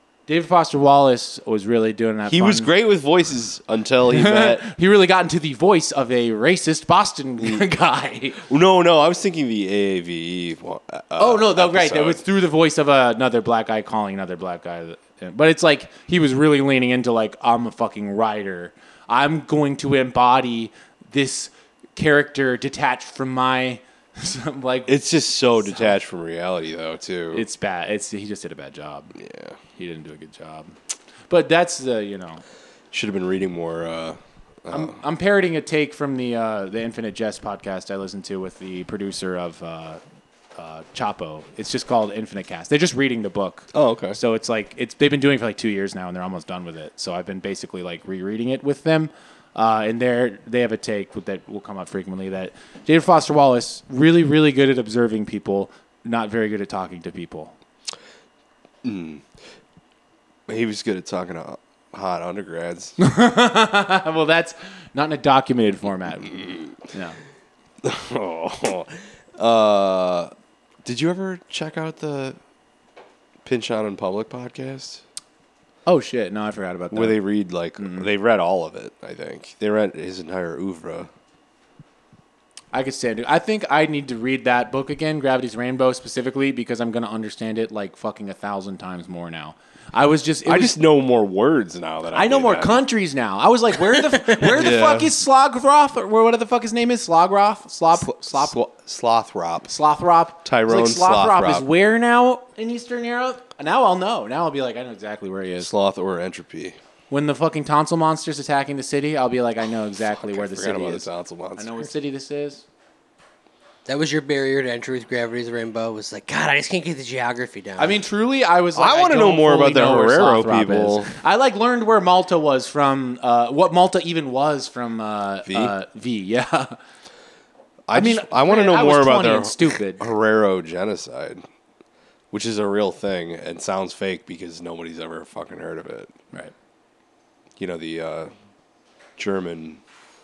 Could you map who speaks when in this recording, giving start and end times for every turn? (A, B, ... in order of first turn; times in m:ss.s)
0:00.3-0:02.7 A
0:02.3-0:04.6 B
0:04.1-0:08.4 A
0:08.4-0:12.2 B
0:11.2-0:25.0 A
0:24.9-0:27.4 B
0:25.6-0:26.0 A
0:27.3-0:29.2 A
0:29.2-0:29.6 B
0:29.8-0:30.7 A
0:31.3-0:32.4 A
0:32.9-0:35.0 B
0:34.7-0:40.0 A
0:40.6-0:57.5 A
0:43.7-0:44.2 B
0:58.8-0:59.3 B
1:00.5-1:03.0 B
1:03.0-1:07.2 A
1:06.3-1:06.6 B
1:07.8-1:10.3 B
1:10.8-1:12.4 B
1:13.4-1:15.0 B
1:15.9-1:17.2 A
1:16.9-1:21.1 B
1:17.8-1:18.1 A
1:22.7-1:30.8 A
1:30.5-1:32.8 B
1:32.1-1:38.5 A
1:34.5-1:35.1 B
1:37.9-1:39.7 B
1:39.7-1:45.7 A
1:40.4-1:41.7 B
1:45.6-1:46.8 B
1:47.1-1:52.6 A
1:50.2-1:51.7 B
1:53.9-1:58.0 C
1:57.8-2:06.8 A
1:58.8-2:01.1 B
2:05.4-2:05.7 B
2:07.9-2:11.4 B
2:07.9-2:10.0 A
2:12.3-2:16.1 B
2:17.6-2:18.3 B
2:19.2-2:19.8 B